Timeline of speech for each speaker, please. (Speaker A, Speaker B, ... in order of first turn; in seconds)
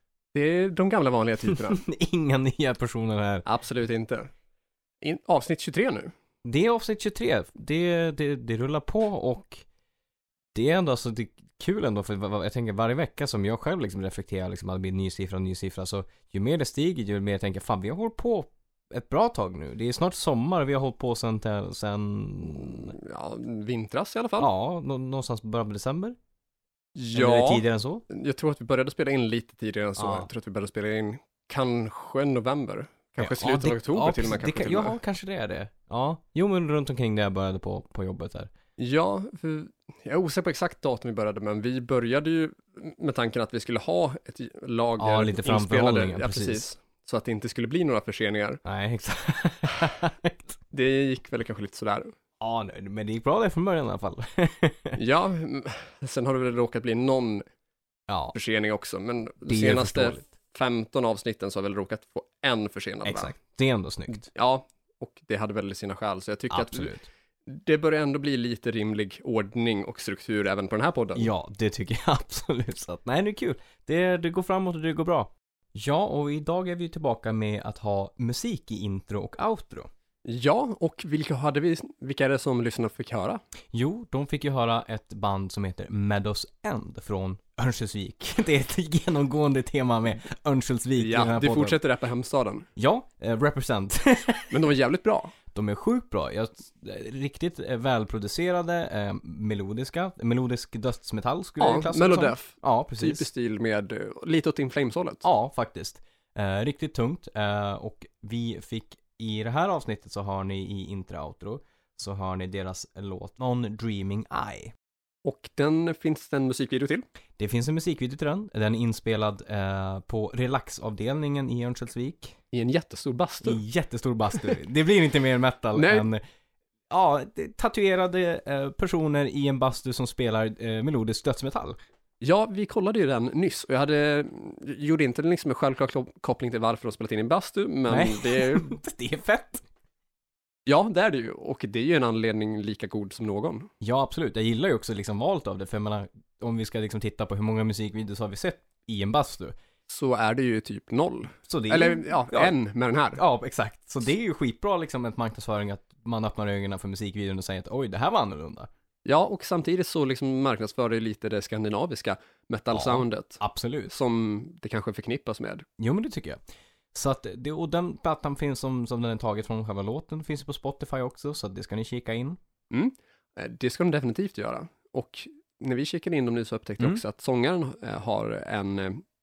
Speaker A: 0.3-1.8, 3.5-4.3, 5.0-6.1, 22.6-24.5, 26.9-35.0, 38.8-48.6, 50.7-52.1, 55.0-57.4, 58.3-63.4, 64.2-66.9, 67.5-71.3, 80.2-83.4, 91.0-92.7, 94.5-95.3, 101.6-105.2, 115.2-117.0, 122.5-123.6, 125.7-126.1, 132.2-138.7, 140.7-143.7, 149.9-153.2, 159.0-165.7, 172.7-179.0
Speaker B: 1.7-3.5, 6.4-9.6, 10.5-22.9, 24.4-26.1, 27.1-28.0, 30.0-30.3, 33.2-38.5, 45.0-46.6, 48.6-50.5, 52.4-55.0, 58.1-58.3, 59.5-60.2, 63.0-64.3, 66.5-67.1, 71.2-79.9, 83.7-91.8, 92.8-94.5, 95.5-103.3, 105.2-114.7, 117.4-122.4, 123.4-126.2, 126.9-131.8, 137.9-139.6, 143.8-149.5, 151.5-152.5, 153.1-158.7, 162.7-163.9, 165.8-166.4, 166.9-172.4